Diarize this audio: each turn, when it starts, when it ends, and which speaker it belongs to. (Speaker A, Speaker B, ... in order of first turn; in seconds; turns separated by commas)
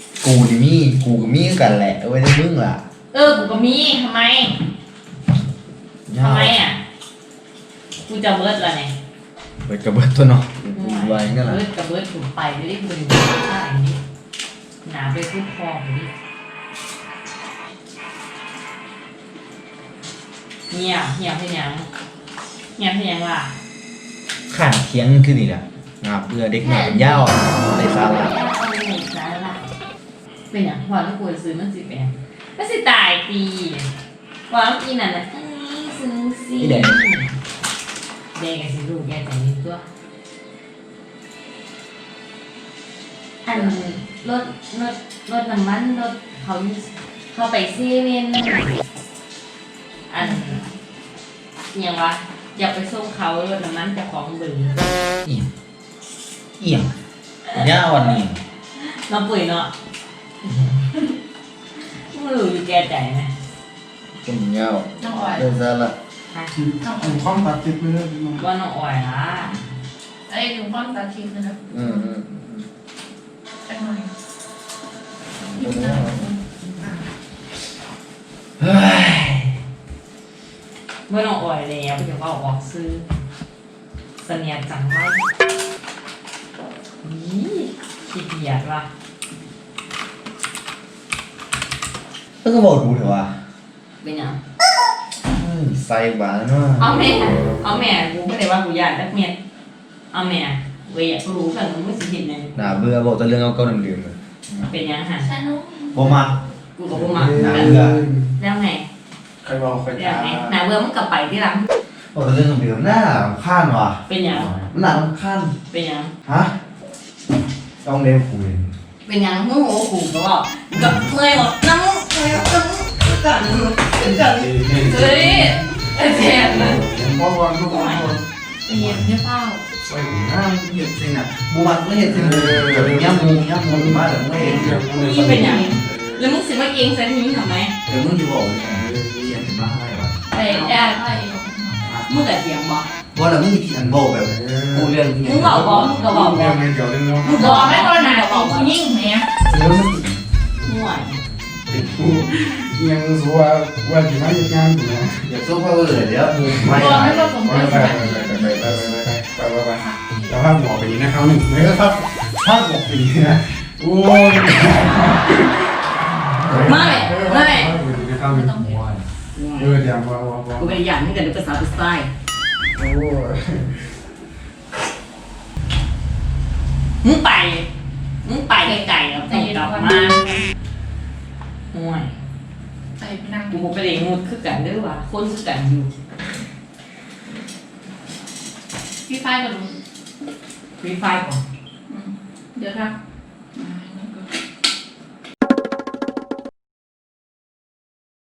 Speaker A: 0.2-2.8, Speaker B: 3.1-4.6, Speaker A: 6.1-6.5, Speaker B: 6.2-6.8, Speaker B: 8.0-8.9, Speaker A: 9.6-11.6, Speaker B: 10.8-14.0, Speaker B: 14.8-16.1, Speaker B: 20.7-21.9, Speaker B: 22.8-23.6, Speaker A: 24.5-28.3, Speaker B: 26.6-29.7, Speaker B: 30.5-33.9, Speaker B: 34.5-37.3, Speaker A: 36.6-37.0, Speaker B: 38.4-39.9, Speaker B: 43.5-48.8, Speaker B: 50.1-50.6, Speaker B: 51.7-54.8, Speaker A: 56.6-56.9, Speaker A: 57.6-58.4, Speaker B: 58.8-59.7, Speaker B: 61.8-63.3, Speaker A: 64.2-66.0, Speaker C: 65.0-65.5, Speaker D: 66.5-68.5, Speaker C: 66.8-67.3, Speaker B: 68.4-69.6, Speaker C: 70.3-72.1, Speaker A: 71.7-72.7, Speaker C: 73.7-74.1, Speaker A: 75.4-76.3, Speaker C: 75.6-76.9, Speaker A: 78.6-79.6, Speaker B: 81.1-83.1, Speaker B: 84.2-85.3, Speaker B: 87.0-88.9, Speaker A: 92.4-93.4, Speaker B: 94.0-94.4, Speaker A: 95.3-97.2, Speaker B: 96.8-99.4, Speaker B: 100.1-102.9, Speaker A: 102.6-104.2, Speaker B: 104.5-105.3, Speaker C: 105.2-106.2, Speaker A: 105.9-106.4, Speaker B: 106.8-108.9, Speaker D: 106.9-108.3, Speaker A: 107.2-108.0, Speaker D: 109.4-110.6, Speaker B: 110.0-111.7, Speaker A: 112.1-115.5, Speaker B: 114.1-114.5, Speaker B: 115.7-116.1, Speaker A: 116.2-116.6, Speaker A: 117.8-118.7, Speaker B: 119.0-125.4, Speaker A: 120.8-121.0, Speaker D: 124.3-128.2, Speaker C: 125.1-126.7, Speaker B: 126.0-126.8, Speaker B: 127.6-128.1, Speaker C: 128.7-129.6, Speaker A: 128.7-129.2, Speaker A: 129.8-134.8, Speaker D: 132.1-136.3, Speaker C: 134.4-135.8, Speaker B: 135.0-137.8, Speaker A: 137.9-140.2, Speaker D: 138.7-139.4, Speaker C: 140.3-141.9, Speaker B: 140.4-140.8, Speaker B: 142.1-142.9, Speaker A: 143.1-146.1, Speaker D: 144.3-147.5, Speaker B: 145.2-146.7, Speaker B: 147.2-148.7, Speaker C: 147.4-149.3, Speaker D: 149.6-150.2, Speaker B: 150.6-151.2, Speaker D: 151.7-155.3, Speaker A: 155.2-157.8, Speaker D: 156.6-165.6, Speaker C: 156.7-159.0, Speaker C: 159.8-160.4, Speaker A: 166.4-166.8, Speaker D: 166.5-169.0, Speaker B: 166.6-167.7, Speaker C: 167.6-168.9, Speaker B: 169.3-169.8, Speaker D: 169.6-170.7, Speaker B: 170.6-172.1, Speaker A: 172.8-173.7, Speaker B: 177.0-177.7, Speaker B: 178.2-180.2, Speaker C: 178.6-180.5, Speaker B: 181.7-182.1, Speaker C: 183.0-183.7, Speaker B: 183.5-185.9, Speaker C: 189.1-189.8, Speaker B: 190.8-191.4, Speaker C: 191.9-193.0, Speaker C: 193.6-194.3